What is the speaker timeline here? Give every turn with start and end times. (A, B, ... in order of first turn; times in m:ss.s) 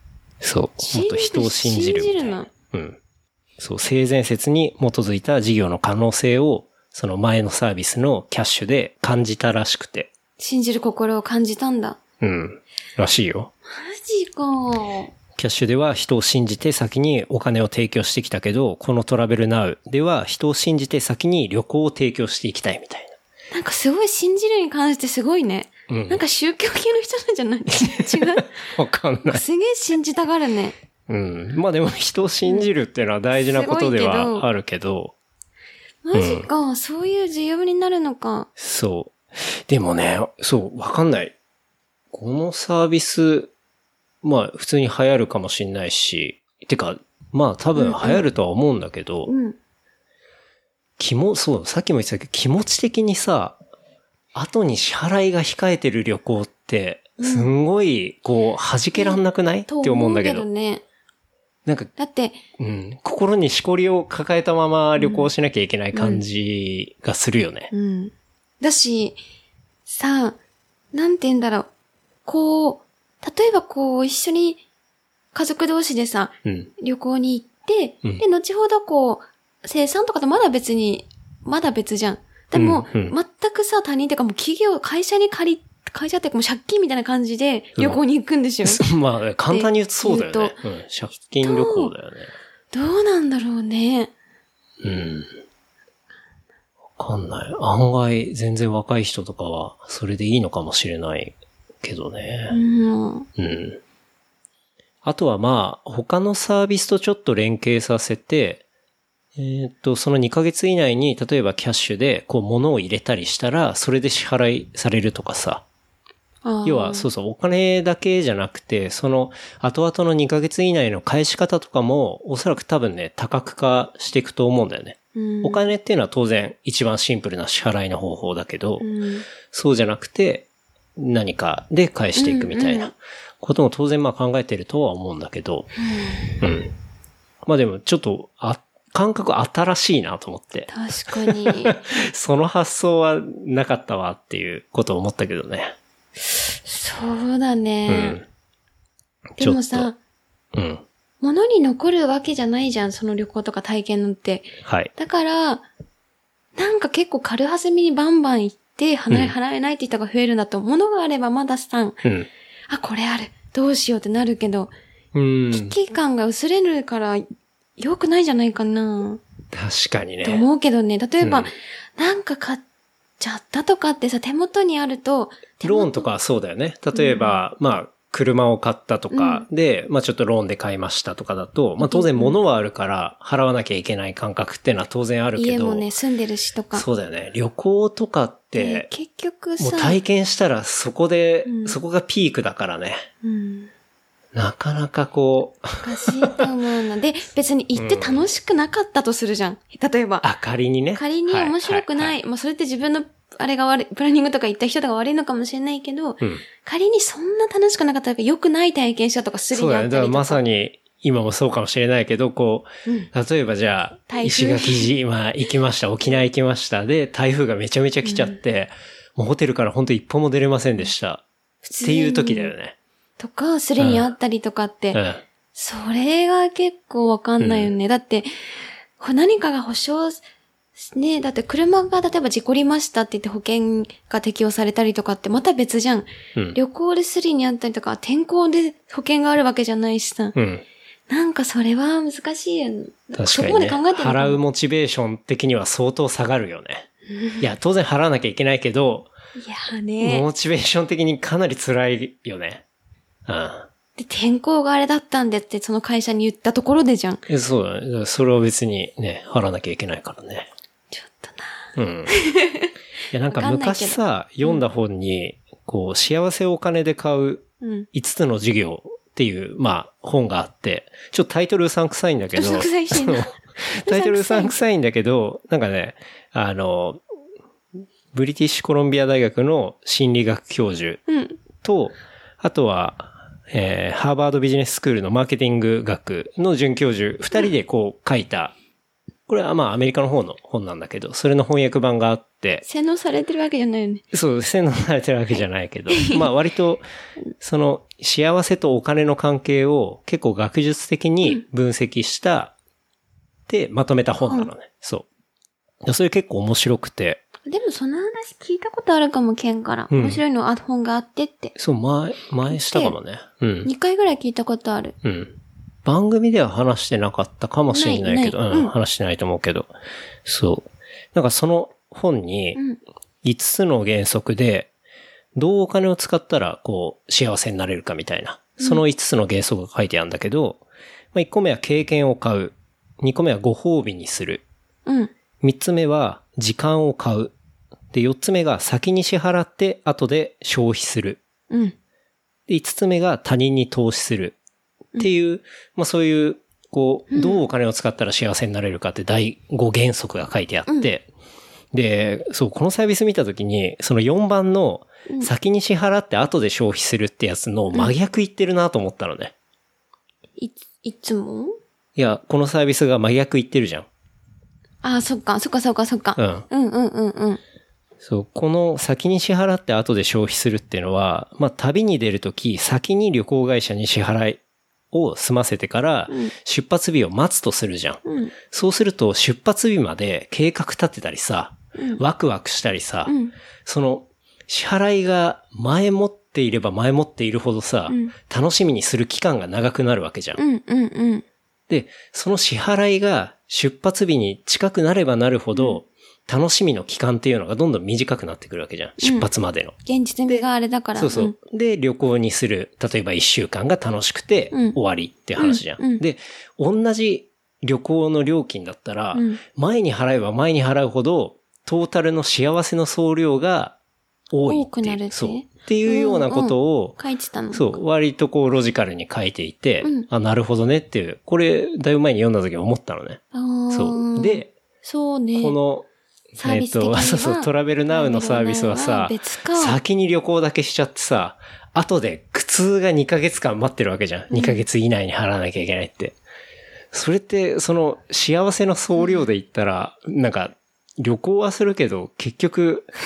0:00.4-0:03.0 A
0:00.8-0:02.5 B
0:03.6-0:10.1 A
0:10.4-0:12.0 B
0:12.2-0:13.5 A
0:13.7-0:15.1 B
0:15.4-0:23.2 A
0:23.5-0:28.5 B
0:25.9-0:26.2 A
0:27.7-0:29.4 A
0:29.3-0:30.8 B
0:31.1-0:35.2 A
0:33.4-0:34.5 B
0:36.0-0:38.5 B
0:36.1-0:36.5 A
0:38.6-0:41.3 A
0:42.1-0:43.5 A
0:44.2-0:49.3 A
0:47.8-0:48.2 B
0:49.3-0:49.6 B
0:51.0-0:53.6 A
0:54.3-1:00.5 A
0:57.2-0:57.5 B
0:59.0-1:00.8 B
1:01.7-1:01.9 A
1:02.0-1:02.4 B
1:02.6-1:07.7 A
1:05.0-1:05.3 B
1:05.9-1:06.2 B
1:07.7-1:09.2 B
1:09.9-1:10.4 B
1:10.9-1:11.7 B
1:12.3-1:14.6 B
1:15.3-1:28.8 B
1:16.4-1:16.7 A
1:22.5-1:23.2 A
1:28.6-1:32.3 A
1:29.5-1:30.6 B
1:31.4-1:31.9 B
1:32.7-1:34.1 B
1:34.8-1:35.3 A
1:37.0-1:42.6 A
1:42.5-1:43.3 B
1:43.4-1:43.8 A
1:45.0-1:48.6 A
1:49.4-1:55.6 A
1:56.4-1:57.1 B
1:56.6-2:08.9 A
2:05.2-2:05.7 B
2:08.8-2:09.3 B
2:09.4-2:15.7 A
2:12.2-2:12.9 B
2:15.8-2:16.4 B
2:16.4-2:16.7 A
2:17.4-2:25.8 A
2:20.7-2:21.8 B
2:26.6-2:28.2 B
2:27.9-2:28.2 A
2:29.4-2:30.0 B
2:29.4-2:29.9 A
2:30.5-2:30.8 A
2:31.2-2:35.7 B
2:34.6-2:34.9 A
2:36.6-2:42.0 B
2:42.0-2:42.3 A
2:42.7-2:44.7 B
2:45.1-2:45.8 A
2:45.5-2:47.2 B
2:47.8-2:49.2 B
2:49.5-2:50.5 A
2:50.2-2:52.6 B
2:51.2-2:51.5 A
2:53.2-2:56.1 B
2:55.6-3:05.9 A
2:56.9-2:57.4 B
2:59.1-2:59.5 B
3:01.8-3:02.4 B
3:05.4-3:06.9 B
3:06.7-3:08.9 A
3:08.6-3:10.0 B
3:09.6-3:13.1 A
3:11.4-3:11.8 B
3:13.2-3:13.7 B
3:14.3-3:16.4 A
3:15.8-3:20.3 B
3:17.8-3:18.3 A
3:20.2-3:22.2 A
3:21.0-3:30.4 B
3:29.5-3:41.2 A
3:32.8-3:33.1 B
3:34.1-3:34.9 B
3:38.0-3:38.4 B
3:41.6-3:42.5 B
3:41.8-3:42.8 A
3:43.2-3:45.0 B
3:43.8-3:44.1 A
3:44.9-3:45.2 A
3:45.5-3:48.3 B
3:47.4-3:47.7 A
3:49.0-3:50.2 B
3:50.8-4:00.4 B
4:00.4-4:00.6 A
4:01.1-4:04.4 B
4:03.1-4:06.9 A
4:07.1-4:07.5 B
4:07.4-4:09.1 A
4:09.4-4:10.2 B
4:10.0-4:12.6 A
4:13.3-4:13.7 A
4:14.0-4:17.2 B
4:17.3-4:20.5 A
4:20.9-4:22.7 B
4:21.8-4:22.2 A
4:23.1-4:37.0 A
4:23.3-4:24.6 B
4:27.6-4:27.9 B
4:32.3-4:34.5 B
4:38.1-4:41.0 A
4:41.1-4:41.4 B
4:41.6-4:48.5 A
4:49.3-4:52.6 A
4:52.6-4:54.0 B
4:54.1-4:56.8 A
4:55.9-4:56.3 B
4:57.4-5:02.5 A
5:03.5-5:05.1 A
5:04.2-5:04.5 B
5:05.8-5:07.2 A
5:07.5-5:11.5 B
5:09.9-5:10.2 A
5:11.6-5:13.7 A
5:12.5-5:13.0 B
5:13.6-5:15.0 B
5:15.0-5:19.7 A
5:17.7-5:18.7 B
5:20.2-5:22.6 A
5:23.2-5:24.7 A
5:25.3-5:30.6 A
5:31.1-5:34.4 A
5:34.9-5:35.1 B
5:35.4-5:37.3 A
5:37.9-5:41.2 A
5:41.5-5:41.8 B
5:42.5-5:44.4 A
5:45.0-5:51.1 A
5:47.1-5:47.4 B
5:51.7-5:59.3 A
6:00.4-6:01.6 B
6:02.0-6:03.9 A
6:04.8-6:07.4 B
6:06.2-6:06.5 A
6:08.0-6:14.4 A
6:14.9-6:30.4 A
6:16.1-6:16.3 B
6:18.0-6:18.3 B
6:21.8-6:22.0 B
6:23.1-6:23.3 B
6:27.9-6:28.1 B
6:30.4-6:31.2 B
6:31.7-6:39.8 A
6:35.6-6:35.8 B
6:39.0-6:39.3 B
6:39.9-6:41.4 B
6:40.3-6:53.8 A
6:44.5-6:44.8 B
6:45.4-6:46.0 B
6:49.1-6:49.4 B
6:54.3-6:57.0 A
6:54.5-6:57.8 B
6:57.5-7:04.5 A
7:03.3-7:05.6 B
7:05.4-7:16.2 A
7:06.4-7:09.8 B
7:14.3-7:14.6 B
7:16.9-7:22.9 A
7:19.0-7:19.3 B